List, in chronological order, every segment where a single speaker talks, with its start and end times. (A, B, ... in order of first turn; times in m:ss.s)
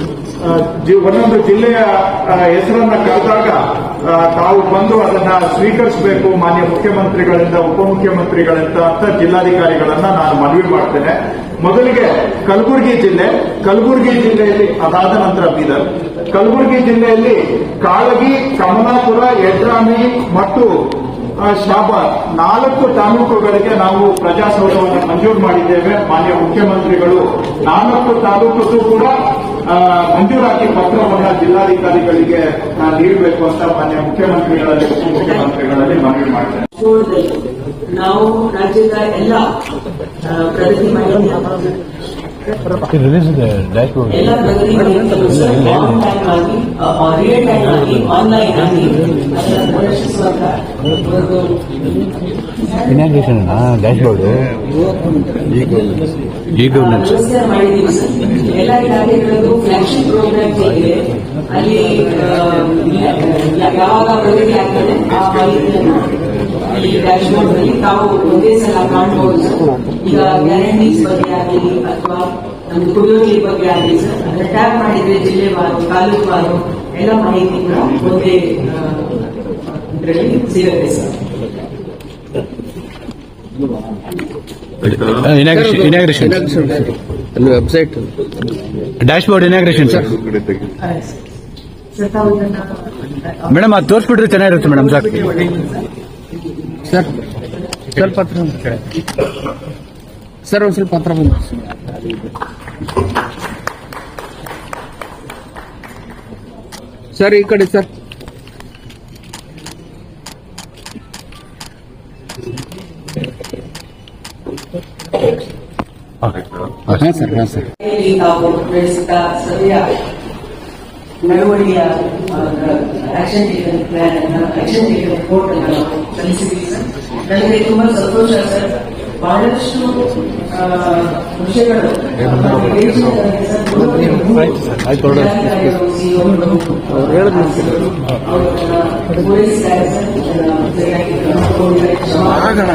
0:00.4-0:20.7 A
0:21.4-0:29.1 A
0:29.6-0:36.7 A
0:36.7-0:39.5 B
0:40.2-0:41.6 B
0:42.9-0:44.3 C
0:44.1-0:51.6 B
0:45.5-0:46.0 C
0:52.8-0:54.5 C
0:56.5-0:57.1 C
0:56.7-1:06.1 B
1:06.6-1:21.2 B
1:24.8-1:26.5 C
1:25.5-1:28.1 D
1:29.0-1:30.1 C
1:30.8-1:31.2 B
1:31.9-1:32.9 B
1:33.5-1:35.3 C
1:34.8-1:35.7 B
1:36.8-1:37.2 D
1:37.9-1:38.8 D
1:40.4-1:41.8 D
1:47.1-1:47.9 D
1:56.2-1:57.6 C
1:57.8-1:59.9 B
2:01.2-2:22.6 B